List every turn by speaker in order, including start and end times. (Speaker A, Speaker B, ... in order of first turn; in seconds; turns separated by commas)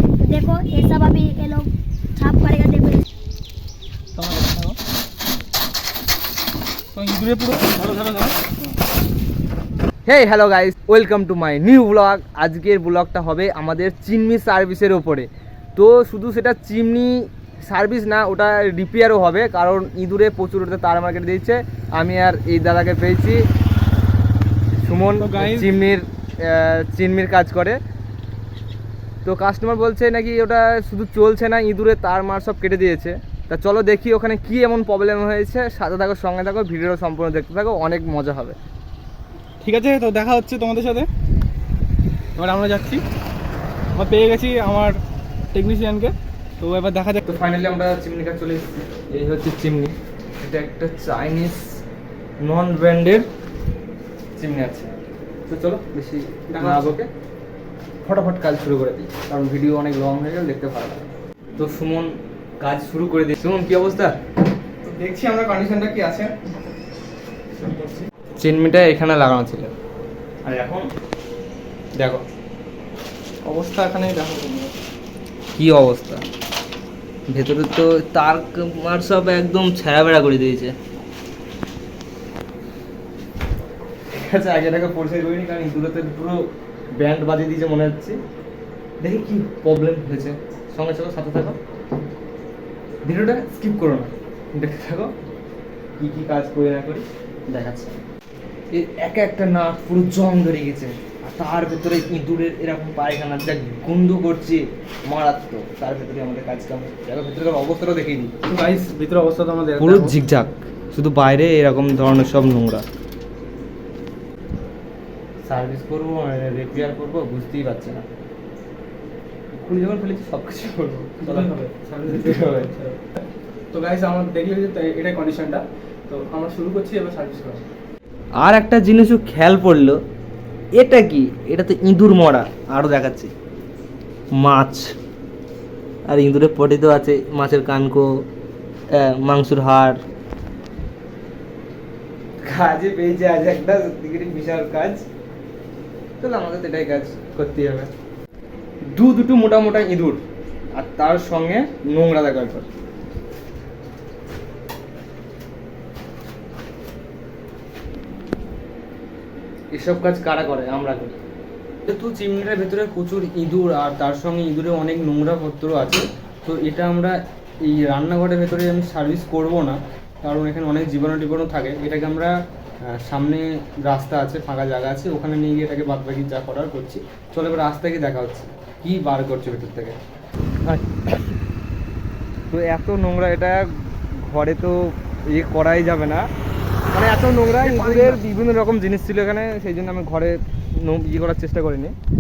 Speaker A: 0.2-3.1, Speaker B: 4.2-4.8, Speaker B: 6.9-8.7, Speaker C: 10.1-23.4, Speaker C: 24.8-27.8, Speaker B: 25.2-25.7, Speaker C: 29.2-38.6, Speaker B: 39.6-41.1, Speaker B: 42.4-43.0, Speaker B: 44.0-45.0, Speaker B: 45.5-47.2, Speaker C: 47.3-51.8, Speaker C: 52.4-53.3, Speaker C: 54.4-54.9, Speaker C: 55.5-57.1, Speaker B: 56.5-56.9, Speaker C: 58.0-61.0, Speaker C: 61.6-64.2, Speaker B: 64.8-66.3, Speaker C: 67.6-69.7, Speaker C: 70.5-70.9, Speaker C: 72.0-72.2, Speaker B: 73.4-74.7, Speaker C: 75.5-76.2, Speaker C: 77.3-80.7, Speaker C: 84.1-86.4, Speaker C: 87.0-88.2, Speaker C: 89.0-91.6, Speaker C: 93.0-95.1, Speaker C: 96.0-98.0, Speaker C: 98.7-108.3, Speaker B: 108.4-110.1, Speaker C: 109.8-112.8, Speaker C: 115.5-118.0, Speaker C: 119.5-122.7, Speaker B: 121.2-123.0, Speaker B: 123.7-127.6, Speaker C: 128.4-130.0, Speaker C: 130.8-133.3, Speaker C: 134.3-134.9, Speaker C: 136.1-138.1, Speaker C: 138.9-140.0, Speaker C: 142.4-145.1, Speaker C: 146.2-147.9, Speaker C: 148.9-150.2, Speaker C: 150.7-152.7, Speaker C: 159.7-161.2, Speaker C: 161.9-172.3, Speaker C: 172.9-180.0, Speaker C: 180.7-181.4, Speaker C: 182.5-183.7, Speaker C: 184.2-186.2, Speaker C: 186.9-191.9, Speaker B: 187.6-188.2